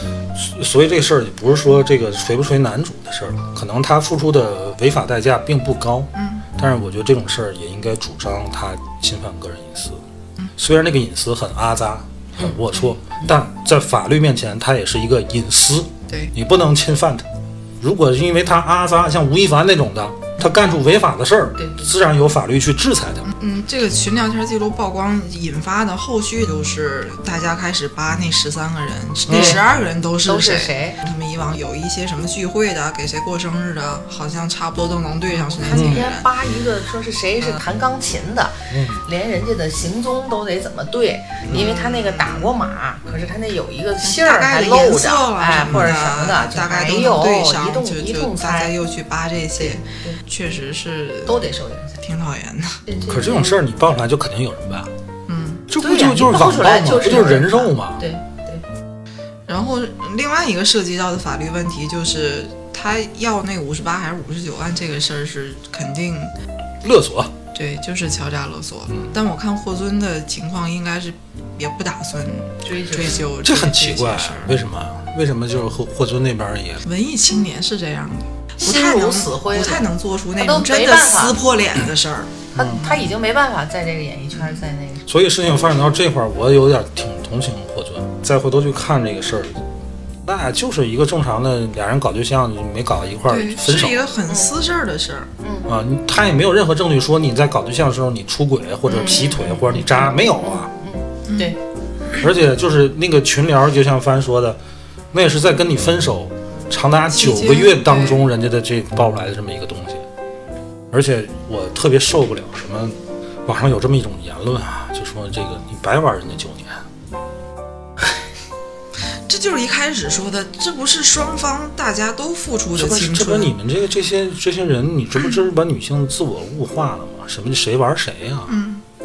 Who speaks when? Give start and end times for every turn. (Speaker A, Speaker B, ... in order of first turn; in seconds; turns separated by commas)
Speaker A: 0.3-10.0, Speaker B: 6.2-6.5, Speaker A: 10.6-17.3, Speaker B: 16.1-16.3, Speaker A: 17.8-23.3, Speaker C: 21.6-21.9, Speaker B: 23.3-36.3, Speaker A: 29.3-29.6, Speaker C: 30.2-31.0, Speaker C: 35.5-48.7, Speaker A: 35.7-36.1, Speaker A: 38.7-39.0, Speaker B: 41.5-42.5, Speaker B: 44.0-51.5, Speaker A: 45.7-45.9, Speaker C: 49.6-50.2, Speaker C: 51.3-52.0, Speaker B: 52.0-52.8, Speaker C: 52.9-53.6, Speaker A: 53.1-54.9, Speaker B: 55.3-55.7, Speaker A: 55.7-58.0, Speaker C: 55.8-58.6, Speaker B: 59.5-66.3, Speaker A: 66.8-67.3, Speaker B: 67.5-74.6, Speaker C: 72.6-73.2, Speaker A: 73.4-76.8, Speaker B: 76.8-83.0, Speaker C: 78.6-81.4, Speaker A: 82.5-82.9, Speaker C: 82.5-85.0, Speaker A: 85.1-89.6, Speaker A: 90.2-94.0, Speaker B: 93.3-95.3, Speaker C: 95.4-95.7, Speaker A: 95.7-100.7, Speaker B: 98.9-99.6, Speaker C: 98.9-101.6, Speaker B: 101.3-101.6, Speaker A: 102.2-104.6, Speaker A: 105.1-110.0, Speaker B: 107.1-108.2, Speaker A: 110.9-116.8, Speaker B: 119.3-123.5, Speaker A: 122.8-128.5, Speaker B: 128.5-128.8